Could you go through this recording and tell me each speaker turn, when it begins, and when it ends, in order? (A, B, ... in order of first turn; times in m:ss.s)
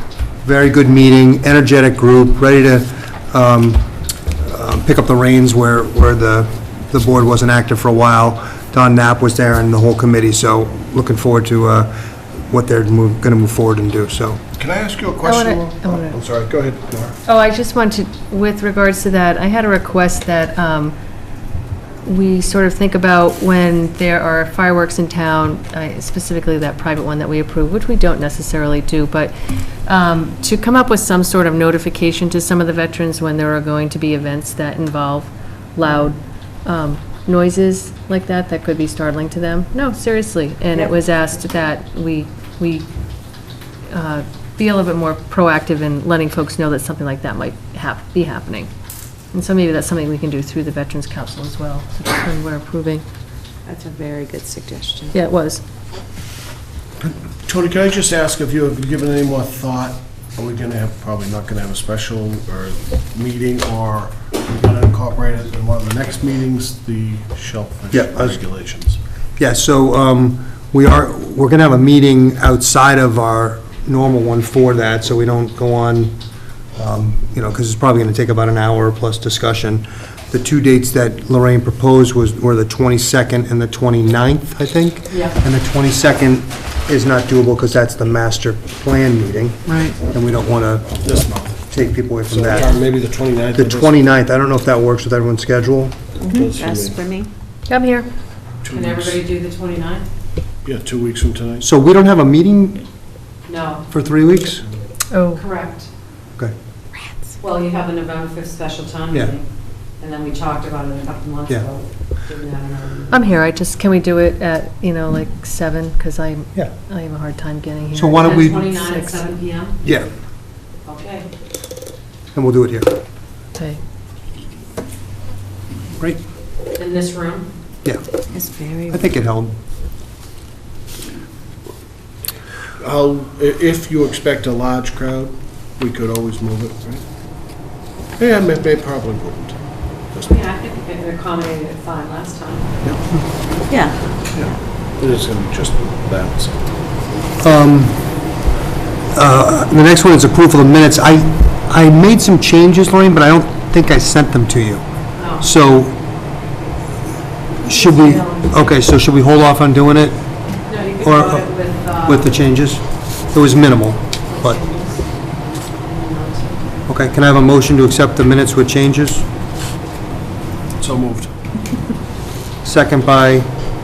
0:00.4-0:03.9 A
0:04.4-0:11.9 A
0:12.5-0:14.4 A
0:14.6-0:17.2 B
0:15.2-0:16.2 C
0:17.3-0:20.9 C
0:22.0-0:29.3 C
0:29.9-0:42.9 C
0:43.9-0:48.7 C
0:49.3-0:53.0 C
0:53.7-0:55.1 D
0:55.1-0:55.6 C
0:57.4-1:09.0 B
1:07.9-1:08.4 A
1:09.4-1:16.2 A
1:16.8-1:31.0 A
1:25.1-1:25.4 D
1:31.0-1:31.7 B
1:31.7-1:32.8 A
1:32.3-1:34.0 B
1:33.6-1:36.0 A
1:36.2-1:37.1 B
1:36.2-1:37.3 E
1:37.7-1:38.1 C
1:38.6-1:39.2 B
1:38.7-1:40.1 D
1:40.6-1:41.7 B
1:41.6-1:42.8 A
1:43.5-1:43.9 D
1:43.9-1:44.6 A
1:45.1-1:45.4 C
1:45.4-1:45.9 D
1:47.4-1:49.4 D
1:50.0-1:53.2 D
1:53.1-1:59.3 C
1:57.9-1:58.7 A
1:58.2-1:59.8 D
1:59.8-2:00.1 A
2:00.8-2:01.3 D
2:02.3-2:02.9 A
2:06.8-2:07.5 D
2:08.3-2:09.0 E
2:08.9-2:09.6 A
2:12.8-2:17.0 B
2:18.2-2:19.6 B
2:20.3-2:22.7 D
2:23.7-2:24.0 E
2:24.3-2:26.6 B
2:27.4-2:28.0 A
2:29.1-2:34.8 A
2:35.2-2:35.4 D
2:35.4-2:36.0 A
2:37.6-2:40.2 A
2:37.6-2:38.6 D
2:40.7-2:42.3 D
2:41.0-2:41.5 A
2:42.0-2:44.6 A
2:44.3-2:45.1 D
2:45.8-2:46.7 D
2:46.9-2:49.3 A
2:50.8-2:51.3 B
2:52.6-2:53.5 A